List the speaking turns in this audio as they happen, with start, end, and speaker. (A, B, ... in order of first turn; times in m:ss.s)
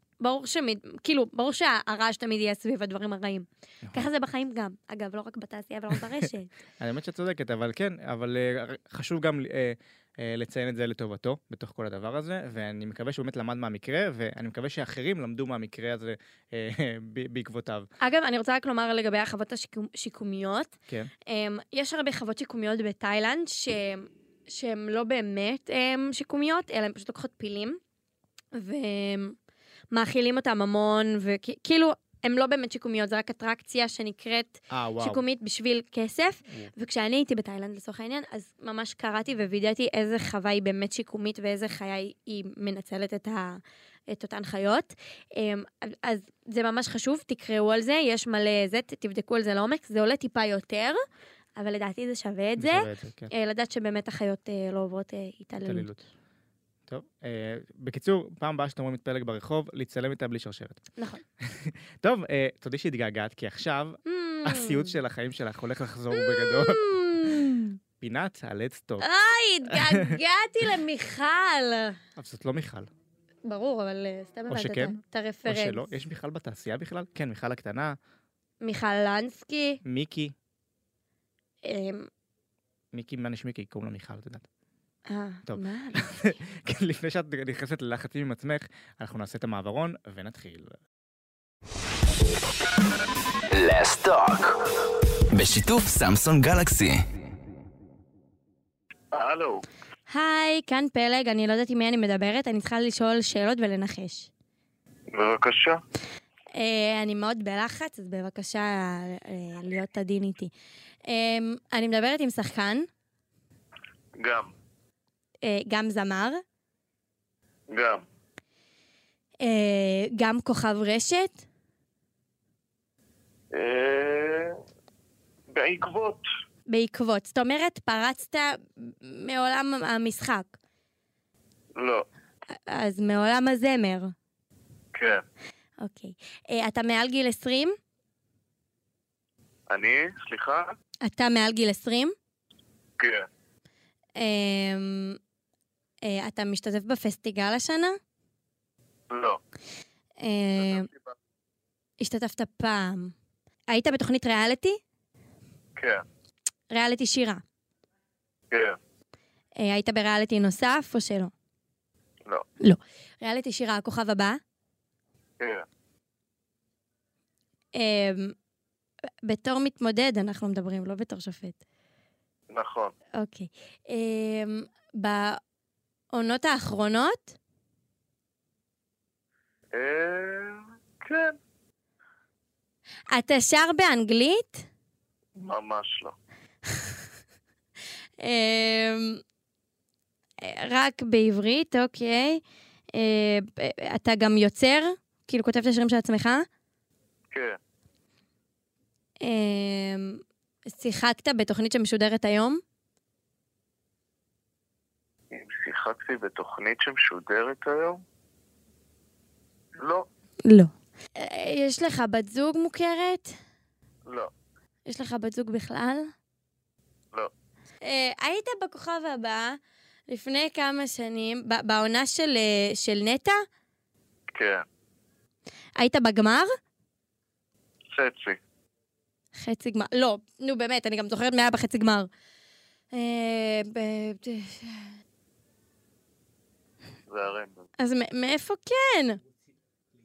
0:00.2-0:06.5 A
0:03.8-0:04.1 B
0:06.8-0:17.9 B
0:18.0-0:20.7 A
0:21.3-0:27.8 A
0:28.5-0:29.4 A
0:29.9-0:51.0 A
0:34.7-0:35.2 B
0:51.6-0:55.9 A
0:52.6-0:53.3 B
0:55.6-0:56.0 B
0:56.9-1:00.8 B
1:01.0-1:01.2 A
1:01.4-1:06.8 B
1:04.0-1:05.0 A
1:06.1-1:07.8 A
1:08.0-1:09.1 B
1:09.0-1:12.0 A
1:09.7-1:10.2 B
1:12.2-1:12.9 B
1:13.4-1:15.9 A
1:14.5-1:18.0 B
1:18.6-1:19.8 A
1:19.8-1:20.3 B
1:21.6-1:22.1 A
1:22.9-1:24.5 B
1:25.1-1:26.3 A
1:25.5-1:30.8 B
1:33.5-1:37.1 C
1:39.1-1:39.6 D
1:40.1-1:44.3 A
1:45.1-1:45.8 D
1:46.5-1:50.5 A
1:51.1-1:52.9 A
1:54.2-1:54.5 D
1:55.4-1:56.4 A
1:57.7-1:58.0 D
1:59.4-2:01.4 A
2:03.5-2:04.6 D
2:05.5-2:06.2 D
2:06.7-2:10.6 A
2:11.8-2:12.1 D
2:12.7-2:14.1 A
2:14.9-2:15.2 D
2:15.8-2:17.8 A
2:19.7-2:20.8 D
2:21.0-2:22.2 A
2:23.0-2:23.2 D
2:24.2-2:25.2 A
2:26.0-2:28.0 A
2:29.1-2:29.4 D
2:30.2-2:30.9 A
2:30.6-2:31.2 D
2:32.0-2:33.1 A
2:33.7-2:34.8 A
2:35.8-2:36.0 D
2:36.7-2:37.4 A
2:38.5-2:38.8 D
2:39.6-2:41.3 A
2:42.6-2:44.4 A
2:45.4-2:45.6 D
2:47.7-2:48.4 A
2:49.2-2:51.6 A
2:52.5-2:52.9 D
2:53.2-2:55.4 A
2:56.1-2:57.4 A
2:59.7-3:01.4 D
3:03.1-3:04.7 A
3:05.4-3:06.1 D
3:08.2-3:09.2 A
3:10.4-3:12.4 A
3:12.9-3:16.5 A
3:17.3-3:17.6 D
3:19.2-3:22.6 A
3:25.3-3:28.0 D
3:29.8-3:30.1 D
3:30.4-3:33.4 A
3:34.9-3:36.1 A
3:37.8-3:39.6 A
3:40.1-3:43.4 A
3:44.3-3:44.6 D
3:45.8-3:46.5 A
3:47.9-3:48.4 D
3:49.4-3:52.1 A
3:52.9-3:55.0 A
3:57.1-3:57.6 D
3:57.8-3:59.2 A